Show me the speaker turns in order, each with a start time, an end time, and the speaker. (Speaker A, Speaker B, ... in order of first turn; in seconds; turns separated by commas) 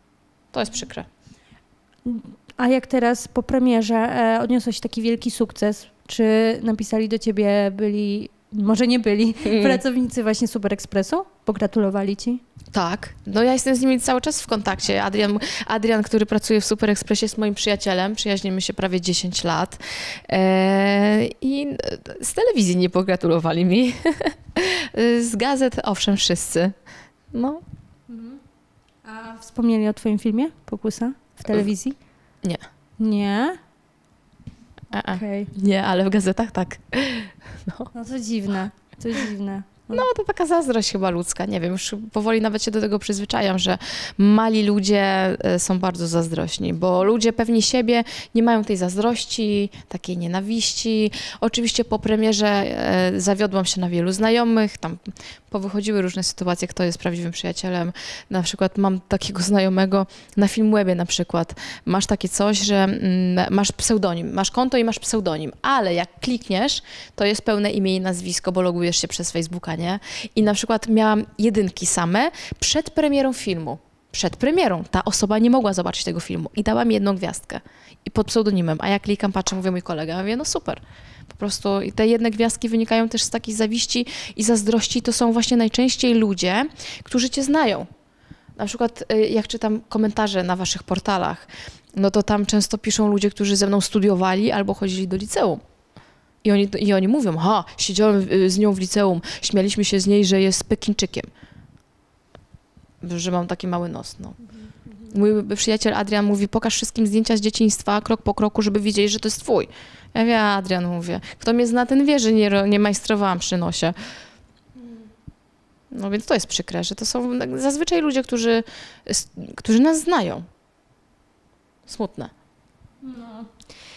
Speaker A: 0.5-1.1, Speaker B: 2.0-12.4, Speaker A: 9.4-9.8, Speaker A: 12.7-26.7, Speaker A: 27.3-27.6, Speaker B: 28.1-28.4, Speaker B: 29.0-32.0, Speaker B: 33.0-33.6, Speaker A: 34.9-37.9, Speaker B: 35.0-35.5, Speaker B: 37.9-40.0, Speaker A: 39.9-87.9, Speaker A: 88.6-95.6, Speaker A: 96.4-101.3, Speaker A: 103.0-104.4, Speaker A: 105.1-113.9, Speaker A: 115.9-120.4, Speaker A: 121.9-122.3, Speaker B: 123.0-123.5